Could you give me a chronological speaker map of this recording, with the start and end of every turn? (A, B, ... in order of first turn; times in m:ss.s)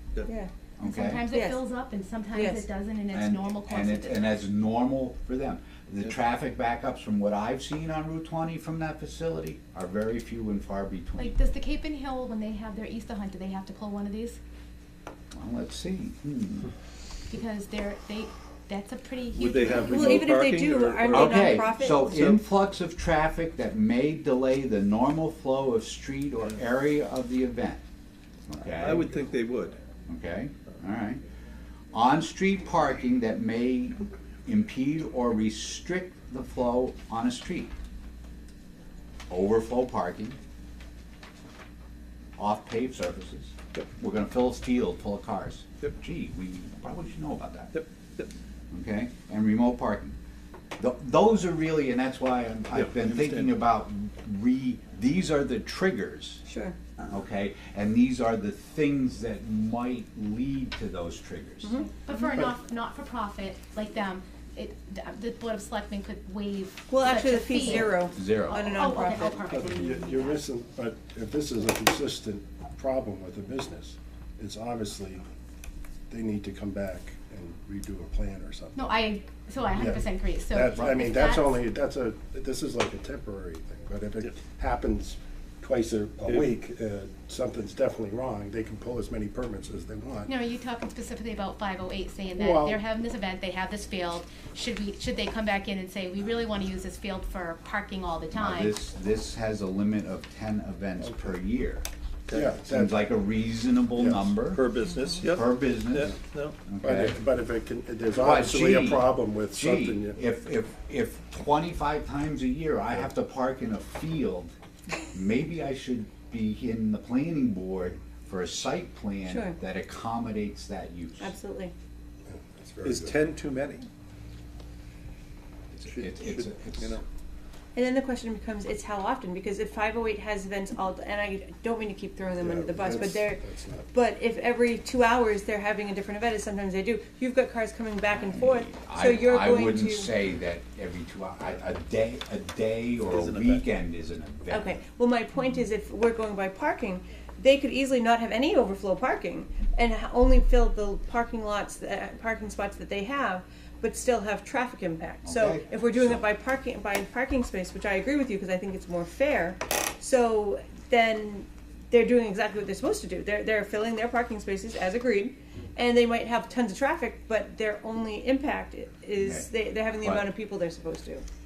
0:00.8-0:01.2 A
0:00.8-0:04.4 B
0:01.3-0:01.6 C
0:02.3-0:02.7 C
0:03.1-0:11.4 A
0:11.2-0:14.4 B
0:15.3-0:16.7 A
0:17.3-0:20.3 B
0:19.3-0:22.4 D
0:19.7-0:22.0 C
0:21.1-0:27.8 A
0:28.5-0:29.1 A
0:28.8-0:29.8 D
0:30.1-0:31.2 A
0:31.9-0:37.7 A
0:39.3-0:40.4 A
0:42.4-0:47.7 A
0:47.7-0:48.2 D
0:48.7-0:50.1 A
0:50.8-0:56.4 A
0:52.7-0:53.5 D
0:56.4-0:56.8 C
0:57.1-1:01.8 A
1:01.6-1:01.9 C
1:02.0-1:10.4 B
1:06.9-1:09.4 C
1:08.1-1:08.6 A
1:09.5-1:15.2 E
1:16.1-1:18.8 E
1:18.8-1:21.6 B
1:19.7-1:30.3 E
1:26.2-1:26.6 D
1:30.2-1:38.8 B
1:32.4-1:32.8 E
1:38.3-1:41.8 A
1:41.0-1:41.3 E
1:42.3-1:43.0 E
1:42.6-1:44.6 A
1:44.0-1:44.3 E
1:44.5-1:46.6 D
1:45.2-1:47.2 A
1:46.8-1:50.2 E
1:48.1-1:54.5 A
1:55.1-2:01.3 A
1:59.2-1:59.6 C
2:01.2-2:01.7 C
2:02.3-2:03.2 E
2:02.8-2:03.8 D
2:05.7-2:07.0 A
2:05.9-2:07.0 D
2:07.7-2:20.1 C
2:12.4-2:13.8 E
2:18.4-2:24.8 A
2:23.0-2:23.6 D
2:24.5-2:51.2 C
2:35.2-2:36.2 A
2:49.2-2:49.5 A
2:50.0-2:50.2 A